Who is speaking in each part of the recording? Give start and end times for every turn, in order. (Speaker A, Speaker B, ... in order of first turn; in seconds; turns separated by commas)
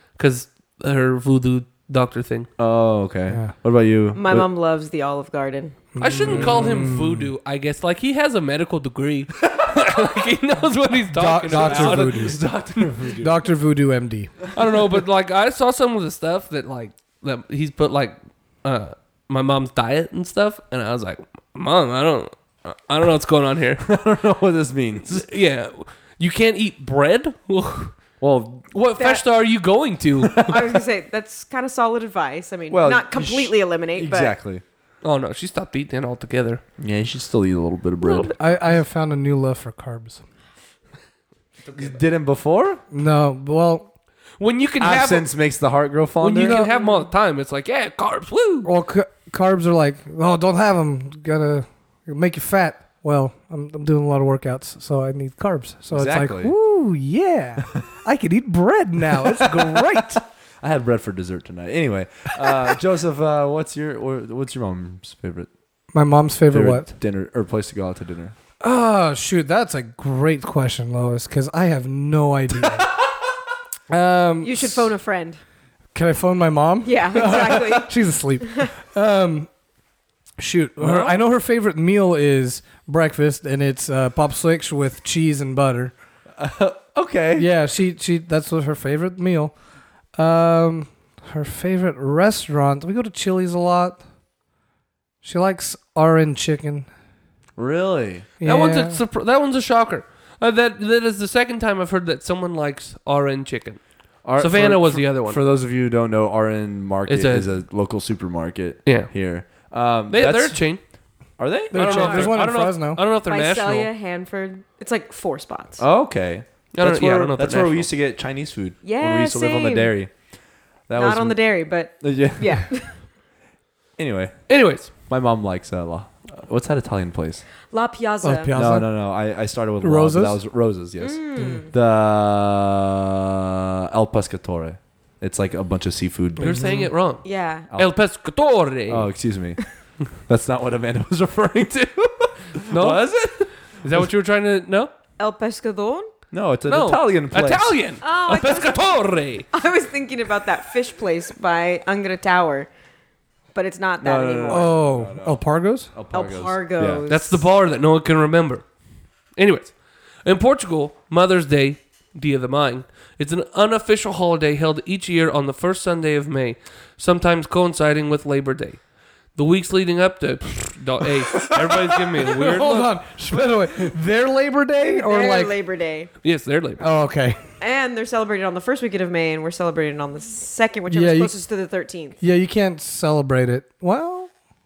Speaker A: 0.2-2.5, Speaker B: 2.6-4.5, Speaker C: 3.3-3.5, Speaker D: 4.2-5.8, Speaker C: 6.0-7.3, Speaker A: 6.0-13.0, Speaker B: 6.3-6.6, Speaker C: 11.1-12.4, Speaker B: 11.4-13.4, Speaker C: 13.2-14.3, Speaker A: 14.5-23.9, Speaker B: 23.8-25.3, Speaker A: 25.1-28.0, Speaker B: 28.2-28.7, Speaker A: 28.7-30.6, Speaker D: 29.0-29.2, Speaker D: 30.4-34.4, Speaker B: 32.7-34.6, Speaker A: 35.0-36.6, Speaker B: 36.8-38.3, Speaker C: 38.3-40.2, Speaker B: 41.7-42.8, Speaker C: 42.9-43.9, Speaker A: 44.4-45.3, Speaker B: 44.8-46.6, Speaker A: 46.2-48.7, Speaker C: 46.4-46.8, Speaker D: 46.7-47.0, Speaker C: 48.6-60.2, Speaker B: 55.9-56.5, Speaker B: 59.4-59.8, Speaker B: 60.6-65.5, Speaker C: 65.9-66.9, Speaker B: 66.5-68.3, Speaker C: 68.6-72.9, Speaker C: 73.9-74.9, Speaker D: 74.4-75.4, Speaker C: 75.9-79.5, Speaker D: 76.8-77.9, Speaker C: 80.4-86.0, Speaker A: 80.8-81.1, Speaker B: 86.4-87.5, Speaker C: 87.4-89.5, Speaker C: 90.2-94.0, Speaker C: 95.2-96.9, Speaker B: 97.6-98.3, Speaker C: 98.4-99.0, Speaker A: 98.4-105.4, Speaker B: 104.2-110.6, Speaker A: 107.1-107.5, Speaker A: 108.9-109.1, Speaker A: 110.1-110.8, Speaker B: 111.4-111.8, Speaker C: 111.7-113.0, Speaker A: 111.7-113.9, Speaker D: 111.9-112.3, Speaker D: 113.3-115.8, Speaker B: 115.8-120.1, Speaker A: 116.7-117.9, Speaker D: 118.8-120.0, Speaker B: 120.9-122.6, Speaker D: 121.0-123.0, Speaker B: 124.0-127.5, Speaker A: 124.5-124.9, Speaker D: 127.7-128.5, Speaker C: 128.2-128.9, Speaker B: 128.5-136.6, Speaker C: 129.8-130.4, Speaker D: 131.0-131.7, Speaker C: 131.4-131.7, Speaker C: 136.4-136.9, Speaker A: 136.4-137.2, Speaker D: 137.2-137.7, Speaker A: 137.8-139.1, Speaker B: 138.9-139.6, Speaker B: 140.3-143.5, Speaker A: 142.7-143.1, Speaker A: 143.8-144.9, Speaker D: 145.2-146.1, Speaker B: 146.3-147.8, Speaker A: 146.7-149.5, Speaker D: 148.0-152.7, Speaker D: 153.5-154.8, Speaker B: 154.0-155.4, Speaker C: 154.5-155.9, Speaker B: 155.9-157.1, Speaker D: 156.1-157.4, Speaker A: 157.1-158.7, Speaker A: 159.4-172.9, Speaker C: 172.2-175.6, Speaker D: 174.9-176.1, Speaker A: 176.2-176.8, Speaker C: 176.8-177.4, Speaker D: 177.6-182.2, Speaker C: 180.9-181.3, Speaker C: 182.2-184.3